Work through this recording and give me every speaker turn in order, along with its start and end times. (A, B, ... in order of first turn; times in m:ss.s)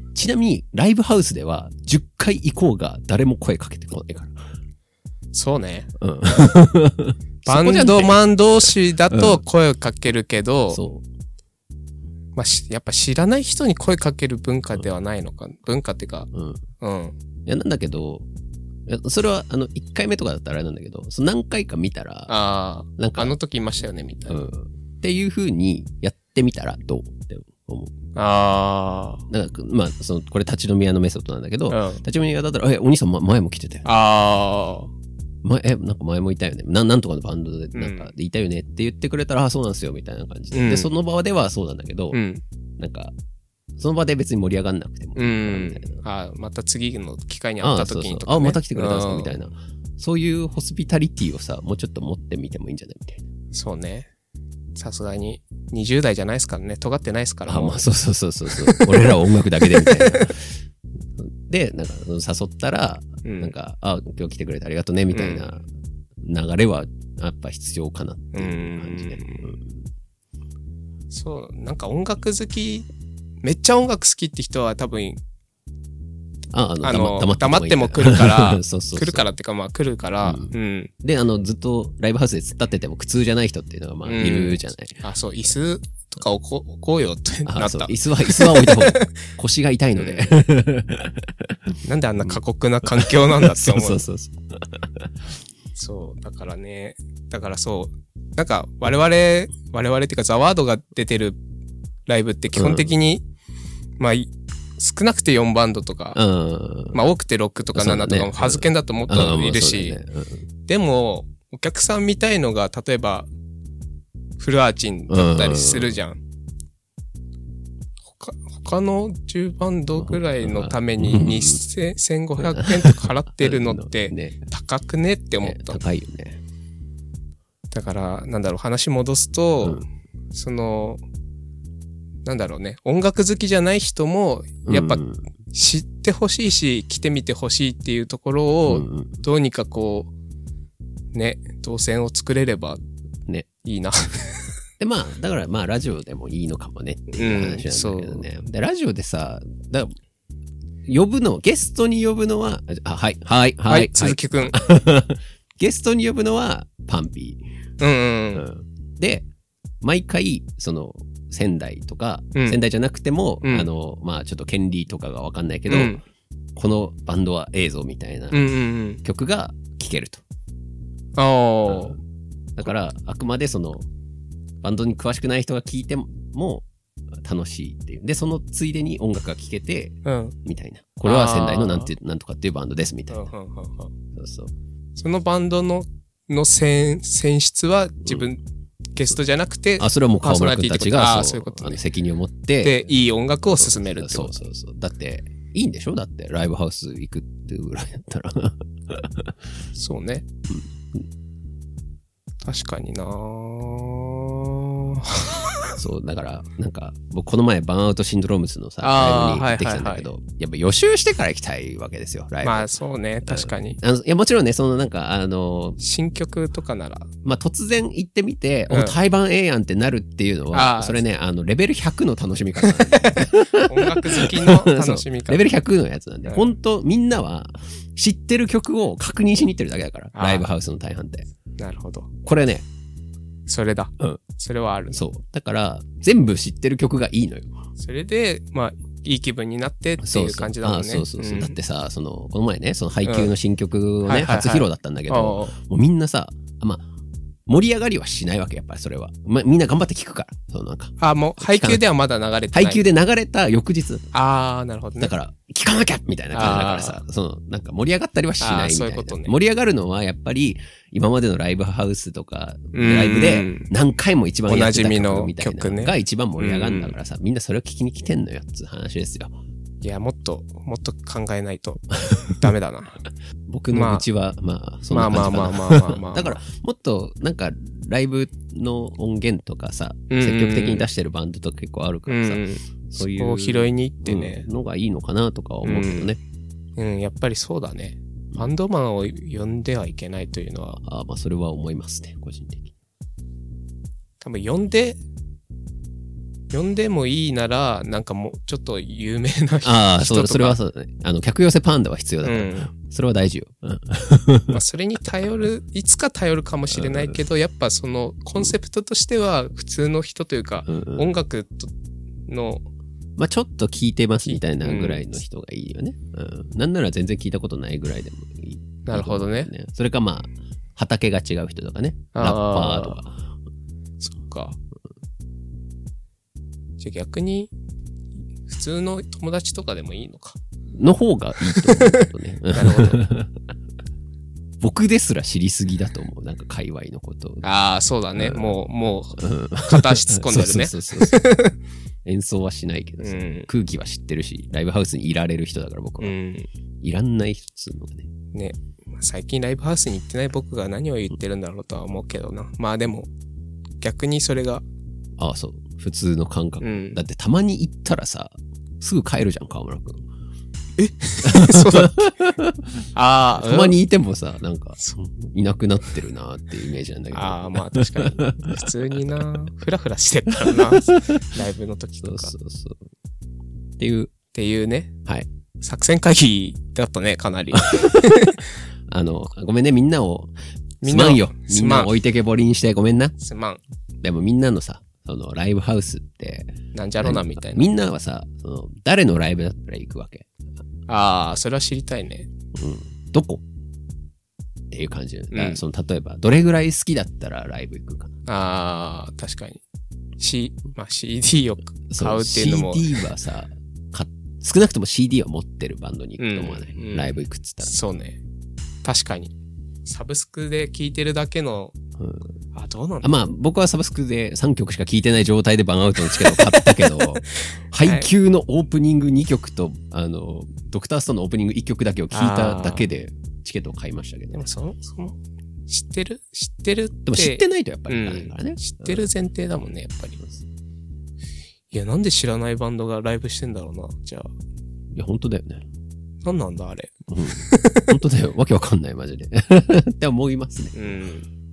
0:00.1-0:04.4 A
0:05.3-0:05.9 B
0:06.0-0:09.4 A
0:07.5-0:10.8 B
0:10.7-0:11.0 A
0:12.4-0:16.3 B
0:16.3-0:16.6 A
0:16.8-0:17.2 B
0:17.4-0:18.2 A
0:18.8-0:22.3 A
0:22.3-0:24.4 B
0:23.0-0:23.3 A
0:24.3-0:27.9 A
0:28.1-0:29.2 B
0:29.3-0:33.9 A
0:31.7-0:32.0 B
0:33.8-0:34.9 B
0:35.4-0:42.2 A
0:37.7-0:38.1 B
0:40.5-0:40.9 B
0:42.1-0:42.4 B
0:42.8-0:43.1 A
0:43.8-0:46.0 A
0:45.2-0:49.4 B
0:47.6-0:53.2 A
0:53.5-0:54.1 B
0:54.8-0:57.8 B
0:57.5-1:00.5 A
0:58.5-1:00.3 B
1:01.2-1:05.6 A
1:03.2-1:03.5 B
1:05.1-1:05.5 B
1:06.2-1:09.9 A
1:08.3-1:09.6 B
1:11.1-1:12.9 B
1:13.4-1:15.2 B
1:16.5-1:19.2 A
1:16.8-1:20.9 B
1:20.2-1:25.0 A
1:24.0-1:29.2 B
1:27.4-1:35.1 A
1:29.9-1:30.4 B
1:31.8-1:34.0 B
1:35.7-1:41.4 B
1:42.1-1:43.2 B
1:42.5-1:42.9 A
1:44.0-1:46.2 B
1:46.1-1:47.0 A
1:46.9-1:50.0 B
1:47.7-1:50.4 A
1:50.7-1:53.3 B
1:54.4-1:56.2 B
1:55.1-1:56.0 A
1:58.1-2:05.8 B
2:00.0-2:01.6 A
2:02.4-2:04.4 A
2:05.4-2:06.4 A
2:07.7-2:11.0 B
2:12.2-2:15.0 B
2:14.6-2:15.2 A
2:15.5-2:20.1 B
2:18.7-2:19.2 A
2:21.1-2:22.8 B
2:23.6-2:24.5 B
2:24.8-2:29.9 A
2:27.1-2:28.2 B
2:30.9-2:37.4 A
2:33.7-2:34.6 B
2:37.8-2:38.5 B
2:38.3-2:39.2 A
2:39.8-2:46.0 A
2:43.4-2:43.7 B
2:45.7-2:46.0 B
2:46.6-2:48.4 A
2:48.3-2:49.0 B
2:49.0-2:50.2 A
2:51.2-2:52.0 B
2:52.5-2:53.8 A
2:54.6-3:03.3 A
3:00.0-3:00.3 B
3:01.0-3:01.9 B
3:03.1-3:03.9 B
3:04.1-3:04.5 A
3:05.0-3:08.4 B
3:08.9-3:11.8 B
3:09.8-3:12.9 A
3:12.6-3:14.4 B
3:13.5-3:19.3 A
3:19.7-3:20.2 B
3:20.5-3:21.0 A
3:22.4-3:25.8 B
3:25.8-3:32.7 A
3:28.8-3:30.1 B
3:32.4-3:33.8 B
3:33.3-3:35.8 A
3:35.8-3:37.1 B
3:37.2-3:51.3 A
3:38.7-3:39.0 B
3:40.5-3:41.0 B
3:42.6-3:45.4 B
3:46.2-3:46.5 B
3:50.1-3:50.4 B
3:51.6-3:52.1 B
3:52.2-3:52.6 A
3:53.5-3:55.0 B
3:54.9-3:57.5 A
3:57.8-4:01.6 B
4:00.0-4:06.8 A
4:03.0-4:03.3 B
4:04.0-4:05.5 B
4:07.5-4:11.8 A
4:11.0-4:12.8 B
4:12.5-4:14.1 A
4:14.1-4:15.1 B
4:15.0-4:29.3 A
4:16.3-4:17.0 B
4:18.4-4:19.3 B
4:22.7-4:23.7 B
4:24.5-4:26.9 B
4:29.8-4:33.0 B
4:33.5-4:46.2 A
4:33.7-4:34.0 B
4:34.9-4:36.4 B
4:40.1-4:40.8 B
4:42.1-4:44.4 B
4:45.6-4:46.1 B
4:46.8-4:50.8 B
4:50.8-4:52.7 A
4:54.2-4:55.0 B
4:56.5-5:00.6 B
4:59.6-5:04.6 A
5:02.2-5:02.7 B
5:04.5-5:11.7 B
5:06.7-5:07.2 A
5:10.6-5:11.0 A
5:12.3-5:12.6 B
5:13.2-5:23.2 A
5:14.3-5:15.0 B
5:18.8-5:19.5 B
5:22.1-5:23.0 B
5:24.0-5:24.6 B
5:26.8-5:27.5 B
5:28.5-5:30.4 B
5:30.7-5:33.4 A
5:31.5-5:33.0 B
5:34.6-5:37.4 A
5:37.4-5:41.6 B
5:38.2-5:38.6 A
5:39.2-5:41.2 A
5:42.0-5:46.1 A
5:43.0-5:43.5 B
5:46.0-5:46.5 B
5:46.8-5:48.1 A
5:48.3-5:53.1 B
5:53.8-5:54.6 B
5:55.2-6:00.0 A
5:56.6-5:57.0 B
6:00.8-6:02.2 B
6:01.2-6:02.8 A
6:02.9-6:03.8 B
6:03.4-6:09.2 A
6:04.8-6:05.1 B
6:07.1-6:12.3 B
6:10.4-6:11.2 A
6:12.0-6:12.8 A
6:13.8-6:14.1 A
6:14.3-6:14.9 B
6:15.6-6:18.5 B
6:17.5-6:18.4 A
6:18.9-6:23.1 A
6:20.8-6:21.9 B
6:23.2-6:23.6 B
6:24.0-6:30.2 A
6:26.7-6:27.7 B
6:30.9-6:32.3 B
6:32.5-6:33.4 A
6:34.7-6:38.1 A
6:35.3-6:35.6 B
6:38.2-6:39.6 B
6:40.2-6:43.0 B
6:41.9-6:47.7 A
6:46.2-6:48.2 B
6:48.8-6:49.3 B
6:49.8-6:51.7 B
6:52.0-6:52.3 A
6:52.5-6:53.3 B
6:53.0-7:04.5 A
6:56.0-6:58.1 B
7:02.1-7:02.8 B
7:04.3-7:05.2 B
7:05.7-7:10.2 B
7:07.0-7:09.0 A
7:11.7-7:14.3 B
7:14.9-7:15.6 A
7:16.2-7:17.9 B
7:17.1-7:20.9 A
7:20.7-7:21.3 B